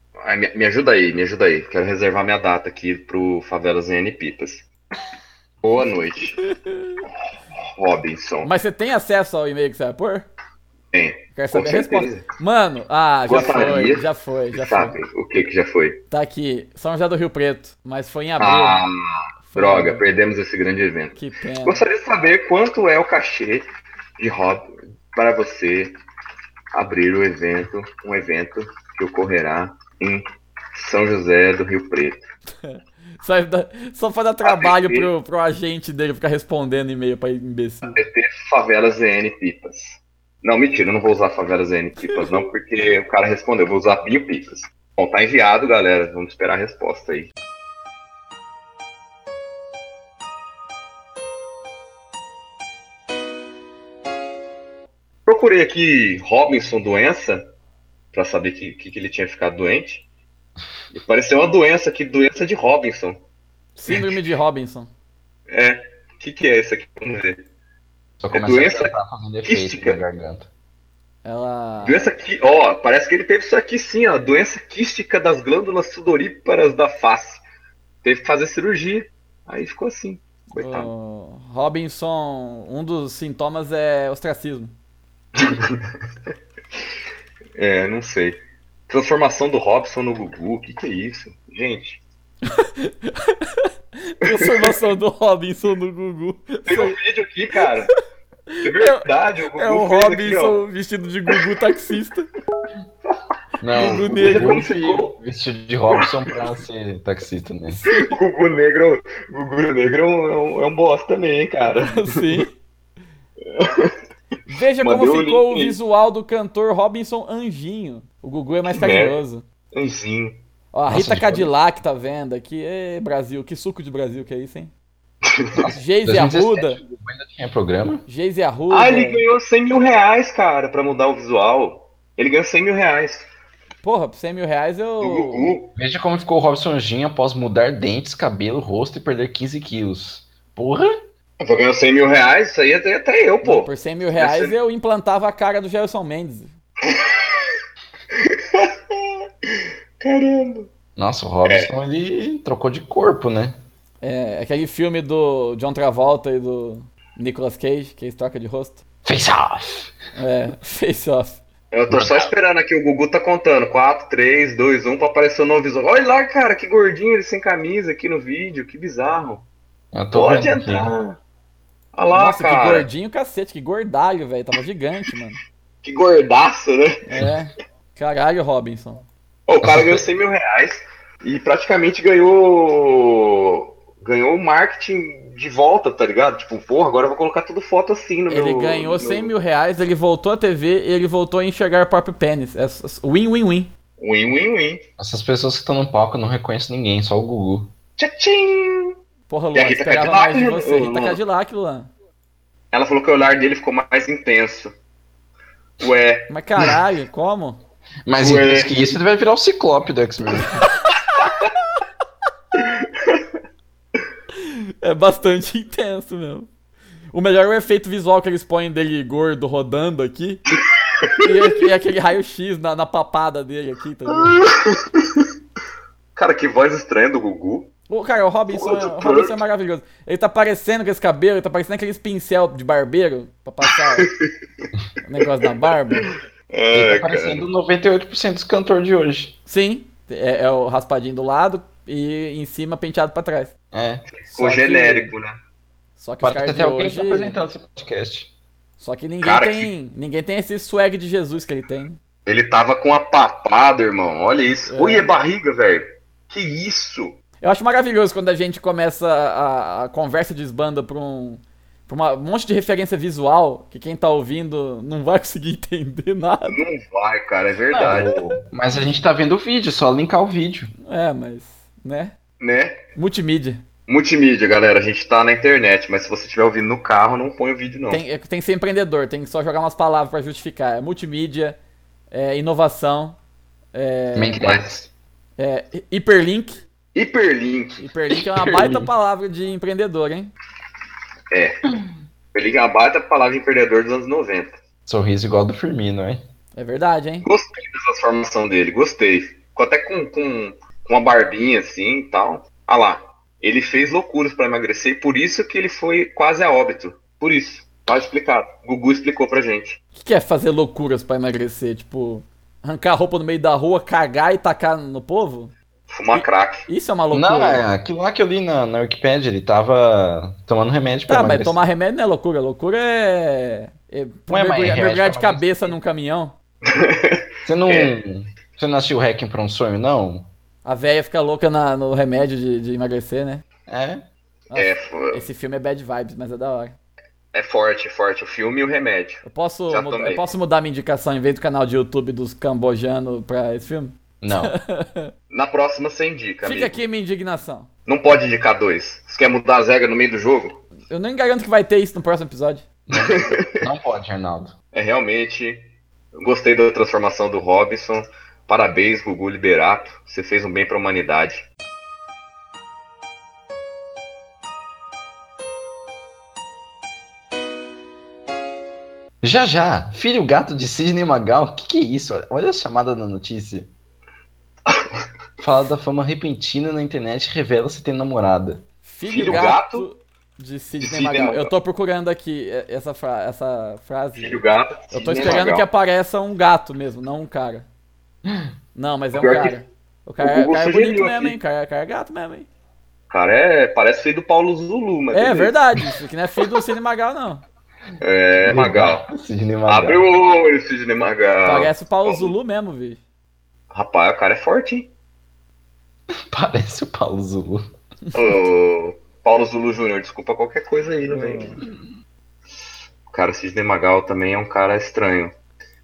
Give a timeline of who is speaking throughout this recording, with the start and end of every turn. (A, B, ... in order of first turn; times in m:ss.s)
0:00.2-0:04.7 A
0:05.6-0:06.4 A
0:06.6-0:07.0 B
0:07.6-0:08.5 A
0:08.4-0:10.3 B
0:10.9-0:12.3 A
0:11.4-0:15.0 B
0:13.3-0:16.0 A
0:16.1-0:18.8 B
0:18.4-0:23.7 A
0:19.5-0:20.0 B
0:21.1-0:21.8 B
0:24.2-0:26.0 A
0:26.7-0:30.2 A
0:30.7-0:32.2 A
0:32.6-0:38.0 B
0:34.4-0:35.1 A
0:37.8-0:47.3 A
0:42.0-0:42.4 B
0:55.3-0:57.5 A
0:58.1-1:00.0 A
1:00.9-1:03.2 A
1:03.8-1:04.9 B
1:05.5-1:07.4 A
1:08.2-1:10.5 C
1:08.3-1:08.9 A
1:09.4-1:10.0 A
1:11.2-1:12.1 B
1:11.8-1:17.4 A
1:18.0-1:20.9 A
1:20.6-1:24.7 B
1:25.4-1:25.9 A
1:27.6-1:28.4 A
1:28.9-1:32.0 A
1:32.5-1:37.0 B
1:34.3-1:34.7 A
1:36.7-1:37.9 A
1:38.5-1:42.3 B
1:38.6-1:40.6 A
1:43.6-1:47.8 C
1:43.8-1:44.6 B
1:43.8-1:45.1 A
1:45.9-1:46.3 A
1:47.9-1:48.1 B
1:47.9-1:52.3 A
1:51.8-1:52.5 B
1:53.5-1:54.0 A
1:54.5-1:59.4 B
1:54.8-1:55.8 A
1:58.7-1:59.2 A
1:59.7-2:00.4 A
2:00.7-2:04.7 B
2:00.9-2:01.5 C
2:05.3-2:05.6 A
2:05.6-2:08.0 C
2:05.7-2:06.8 B
2:08.1-2:09.2 B
2:08.7-2:13.3 A
2:13.8-2:15.5 B
2:15.0-2:15.7 A
2:15.7-2:21.0 C
2:21.4-2:24.6 A
2:23.4-2:26.5 B
2:26.8-2:27.5 A
2:28.1-2:29.2 A
2:30.0-2:30.7 A
2:31.0-2:33.6 C
2:31.4-2:31.7 A
2:34.0-2:38.8 B
2:39.0-2:39.9 C
2:40.2-2:41.4 B
2:41.7-2:49.4 A
2:41.9-2:42.3 C
2:49.9-2:50.9 C
2:50.1-2:51.2 A
2:52.0-2:52.9 A
2:52.1-2:55.4 B
2:55.8-2:57.0 A
2:57.0-2:59.0 B
2:59.5-3:09.3 A
2:59.6-3:00.0 C
3:08.3-3:13.7 B
3:14.0-3:14.8 A
3:15.0-3:17.7 C
3:18.0-3:19.0 A
3:19.3-3:21.9 B
3:19.5-3:21.2 A
3:22.7-3:24.7 A
3:25.8-3:26.3 A
3:26.3-3:27.6 B
3:28.0-3:30.6 C
3:28.2-3:28.7 A
3:32.6-3:33.2 A
3:34.4-3:36.5 B
3:37.1-3:40.4 B
3:41.0-3:41.3 A
3:41.2-3:44.4 B
3:44.1-3:45.2 A
3:46.2-3:47.7 A
3:47.9-3:54.1 B
3:48.5-3:49.4 A
3:54.0-3:54.3 A
3:55.0-3:56.1 B
3:56.0-3:57.4 A
3:56.7-3:59.4 C
3:59.5-4:03.5 B
4:03.7-4:04.0 C
4:04.1-4:05.4 A
4:04.3-4:05.1 B
4:06.0-4:07.4 B
4:06.2-4:08.3 C
4:08.8-4:12.0 B
4:09.2-4:09.7 A
4:12.3-4:17.2 A
4:14.7-4:15.1 B
4:17.4-4:26.6 B
4:26.5-4:28.1 A
4:27.7-4:30.7 C
4:28.0-4:28.4 B
4:30.8-4:32.1 B
4:32.4-4:32.8 A
4:33.0-4:33.6 B
4:33.9-4:38.0 A
4:37.9-4:41.6 B
4:42.1-4:43.2 B
4:43.7-4:44.4 B
4:44.1-4:44.9 C
4:44.4-4:44.7 A
4:45.4-4:46.6 B
4:47.0-4:47.9 A
4:47.8-4:50.3 B
4:48.4-4:48.9 C
4:52.3-4:54.6 A
4:54.9-4:56.2 C
4:56.6-4:57.3 B
4:57.2-5:09.8 A
5:10.0-5:15.5 B
5:15.9-5:16.7 A
5:16.1-5:17.6 B
5:17.1-5:21.6 C
5:21.1-5:26.3 B
5:24.3-5:25.7 C
5:26.6-5:28.0 A
5:27.4-5:30.3 C
5:30.6-5:33.4 B
5:33.7-5:34.0 C
5:34.5-5:35.2 A
5:34.5-5:36.8 B
5:37.3-5:40.2 A
5:39.2-5:45.1 B
5:44.2-5:44.6 C
5:45.3-5:46.8 A
5:46.4-5:47.7 B
5:47.9-5:50.6 A
5:50.9-5:52.6 B
5:52.9-5:54.6 C
5:52.9-5:53.5 A
5:54.7-6:01.5 A
6:09.2-6:13.7 C
6:15.4-6:18.6 C
6:18.8-6:27.7 B
6:19.0-6:19.9 A
6:20.8-6:21.5 A
6:24.2-6:25.7 A
6:28.7-6:32.5 B
6:29.1-6:29.6 A
6:30.2-6:31.4 A
6:33.1-6:35.6 A
6:35.1-6:37.4 B
6:38.0-6:39.0 A
6:38.4-6:40.0 C
6:39.7-6:42.3 A
6:41.4-6:43.0 B
6:43.7-6:44.9 A
6:46.1-6:47.6 C
6:48.1-6:51.6 A
6:51.1-6:51.6 B
6:53.1-6:55.3 A